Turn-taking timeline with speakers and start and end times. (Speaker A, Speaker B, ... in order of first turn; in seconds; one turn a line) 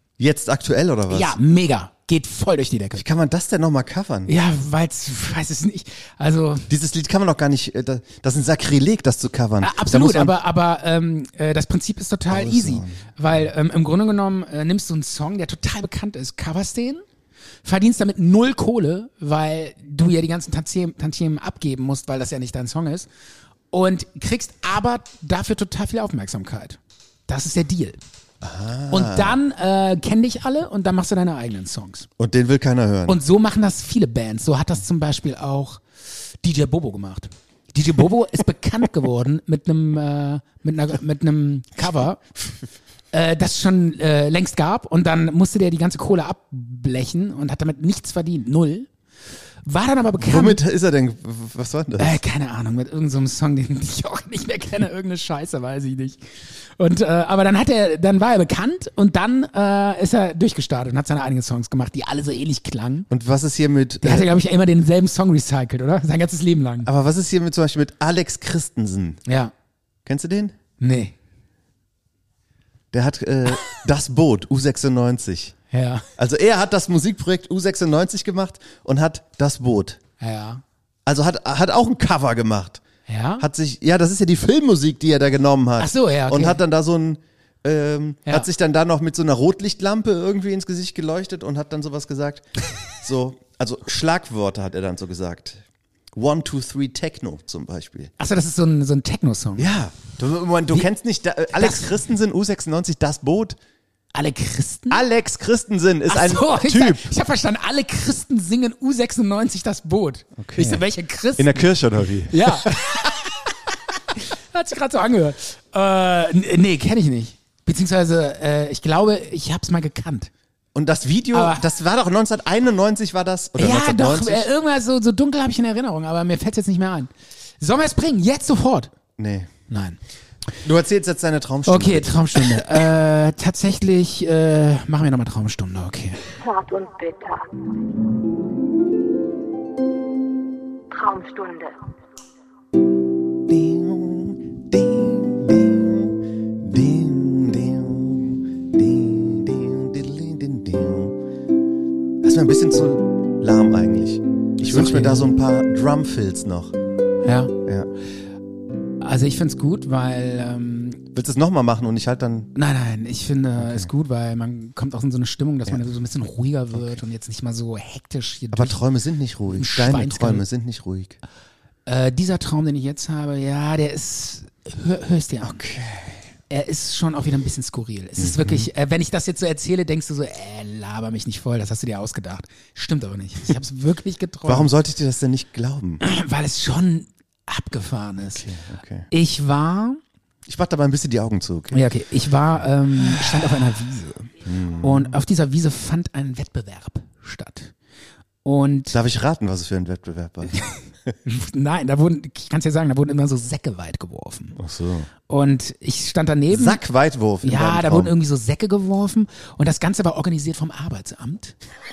Speaker A: 0.2-1.4
Speaker B: 1.1-3.0
Speaker A: 2.9-4.3
Speaker B: 4.3-6.7
Speaker A: 6.7-10.3
Speaker B: 9.6-17.0
Speaker A: 12.3-13.0
Speaker B: 17.6-23.1
Speaker B: 23.7-28.0
Speaker A: 28.4-29.4
Speaker B: 28.9-32.1
Speaker A: 32.2-33.2
Speaker B: 33.1-35.8
Speaker B: 36.4-42.2
Speaker B: 43.1-48.9
Speaker B: 49.6-50.6
Speaker A: 50.2-52.2
Speaker B: 52.0-56.2
Speaker B: 56.8-63.1
Speaker A: 63.1-64.3
Speaker B: 64.0-66.9
Speaker A: 66.8-69.2
Speaker B: 69.2-69.5
Speaker A: 70.0-70.5
Speaker B: 70.8-71.1
Speaker A: 72.9-75.6
Speaker B: 75.7-76.0
Speaker A: 76.2-80.0
Speaker B: 80.2-80.6
Speaker A: 81.0-82.8
Speaker B: 83.1-83.5
Speaker A: 83.4-95.6
Speaker B: 85.8-86.6
Speaker A: 96.1-98.1
Speaker B: 98.2-99.7
Speaker A: 99.6-103.6
Speaker B: 101.5-101.9
Speaker B: 104.1-105.0
Speaker A: 104.9-107.1
Speaker B: 106.1-111.7
Speaker A: 110.4-110.8
Speaker A: 111.3-112.8
Speaker B: 112.3-113.5
Speaker B: 114.1-120.3
Speaker A: 120.7-124.5
Speaker B: 121.3-121.6
Speaker B: 123.5-127.1
Speaker B: 127.6-128.9
Speaker A: 129.2-129.5
Speaker B: 129.7-130.0
Speaker A: 130.6-132.8
Speaker B: 131.7-136.2
Speaker C: 136.4-137.5
Speaker C: 140.9-141.8
Speaker A: 143.5-151.2
Speaker A: 152.2-156.7
Speaker B: 154.6-155.3
Speaker B: 157.2-157.5
Speaker B: 159.0-161.0
Speaker A: 161.1-162.5
Speaker B: 162.5-168.8
Speaker A: 163.6-163.9
Speaker A: 168.5-171.2
Speaker B: 169.5-170.4
Speaker B: 171.8-175.6
Speaker A: 175.4-176.2
Speaker B: 176.5-184.7
Speaker A: 178.2-178.7
Speaker A: 184.4-186.0
Speaker B: 186.0-188.4
Speaker A: 188.2-189.1
Speaker B: 189.1-190.0
Speaker A: 190.4-191.8
Speaker B: 191.7-197.7
Speaker A: 193.0-193.4
Speaker A: 194.4-195.1
Speaker B: 198.4-198.9
Speaker A: 198.9-201.2
Speaker B: 201.2-204.6
Speaker A: 204.6-205.1
Speaker B: 205.3-206.8
Speaker A: 206.5-208.1
Speaker B: 207.4-211.6